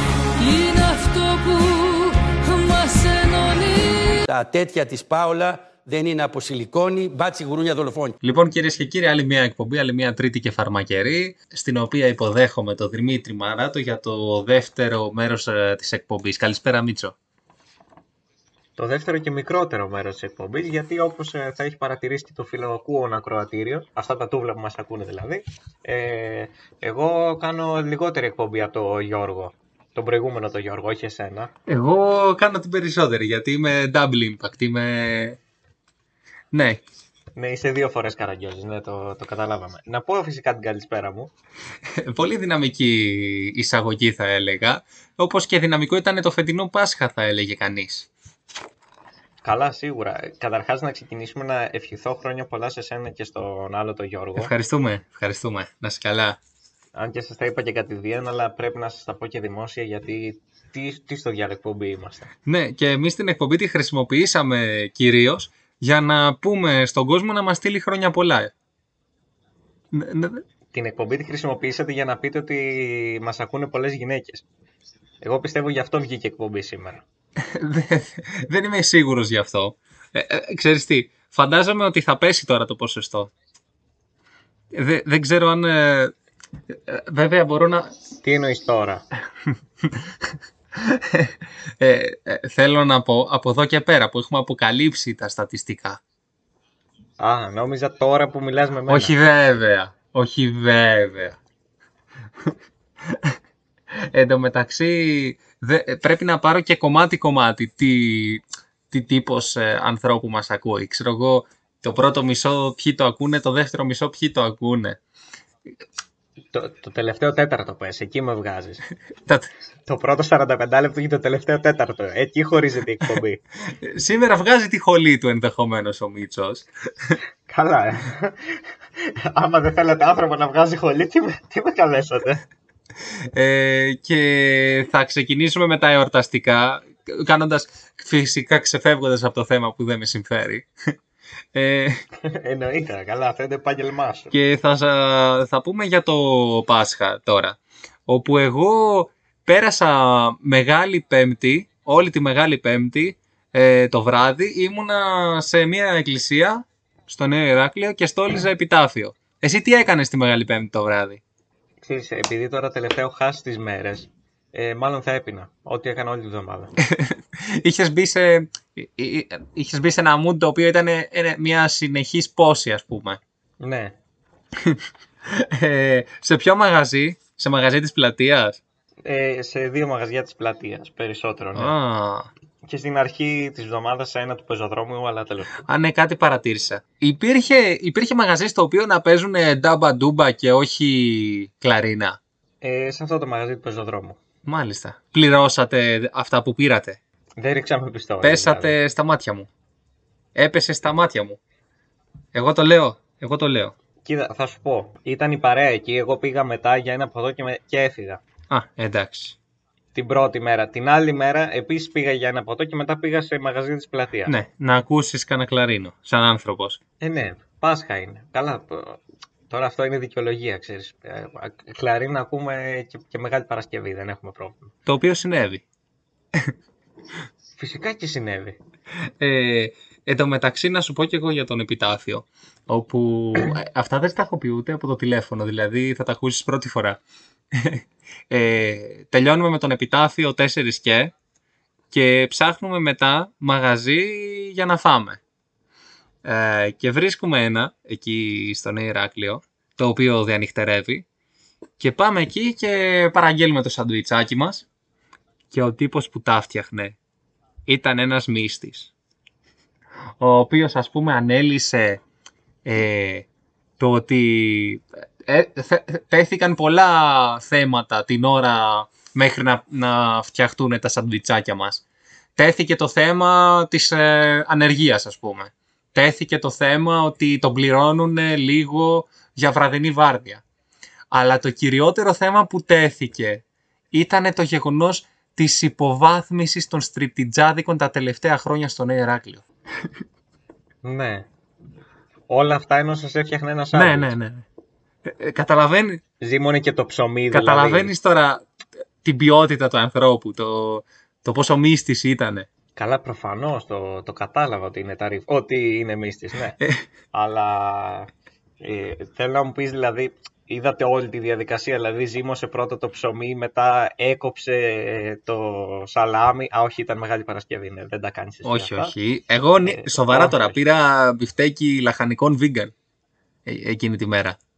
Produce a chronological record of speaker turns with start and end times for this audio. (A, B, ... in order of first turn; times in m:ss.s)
0:00.4-0:04.2 A
0:04.3-0:08.2 B
0:08.2-0:17.2 C
0:18.8-0:31.5 D
0:31.7-0:35.4 C
0:36.5-0:36.8 C
0:37.4-0:41.3 D
0:42.0-0:48.1 C
0:49.4-0:54.5 D
0:54.4-0:56.4 C
0:56.9-1:02.3 D
1:02.4-1:08.5 C
1:09.9-1:10.4 C
1:10.7-1:14.4 D
1:15.2-1:17.0 D
1:17.4-1:23.3 C
1:24.7-1:26.1 C
1:26.7-1:27.9 C
1:28.2-1:29.0 D
1:30.8-1:36.0 C
1:37.2-1:39.1 D
1:38.9-1:41.4 C
1:43.0-1:43.3 C
1:44.0-1:55.0 C
1:56.5-1:58.8 D
1:59.9-2:03.4 D
2:03.8-2:07.2 C
2:07.5-2:08.4 D
2:09.3-2:12.4 D
2:13.3-2:20.7 C
2:21.5-2:22.0 C
2:22.2-2:24.3 D
2:24.3-2:41.2 C
2:41.8-2:46.7 D
2:46.8-2:53.2 C
2:53.6-2:53.9 D
2:54.6-2:58.6 C
2:59.0-3:01.7 D
3:01.5-3:02.3 C
3:02.6-3:05.6 D
3:05.6-3:12.2 C
3:12.6-3:14.2 D
3:14.4-3:17.0 C
3:17.4-3:18.7 D
3:18.2-3:19.5 C
3:20.3-3:21.4 C
3:22.3-3:23.7 C
3:24.0-3:28.2 D
3:28.5-3:29.4 C
3:29.9-3:34.3 D
3:34.2-3:36.8 C
3:37.0-3:39.0 D
3:39.5-3:44.7 D
3:44.8-3:45.6 C
3:47.6-3:48.6 D
3:49.2-3:57.0 C
3:57.5-4:01.1 C
4:01.9-4:05.2 C
4:06.2-4:11.0 C
4:11.8-4:14.6 C
4:15.5-4:17.0 C
4:17.7-4:18.9 C
4:20.2-4:22.0 C
4:22.6-4:23.3 C
4:23.8-4:31.8 C
4:32.4-4:40.4 C
4:41.1-4:49.4 C
4:50.8-4:51.2 D
4:52.3-4:54.1 D
4:53.7-4:54.4 C
4:55.0-4:56.0 C
4:56.2-4:57.9 D
4:57.3-4:58.4 C
4:59.0-5:02.5 C
5:02.8-5:06.6 D
5:07.1-5:08.1 D
5:08.6-5:18.9 D
5:18.4-5:22.7 C
5:19.6-5:20.6 D
5:23.4-5:24.4 C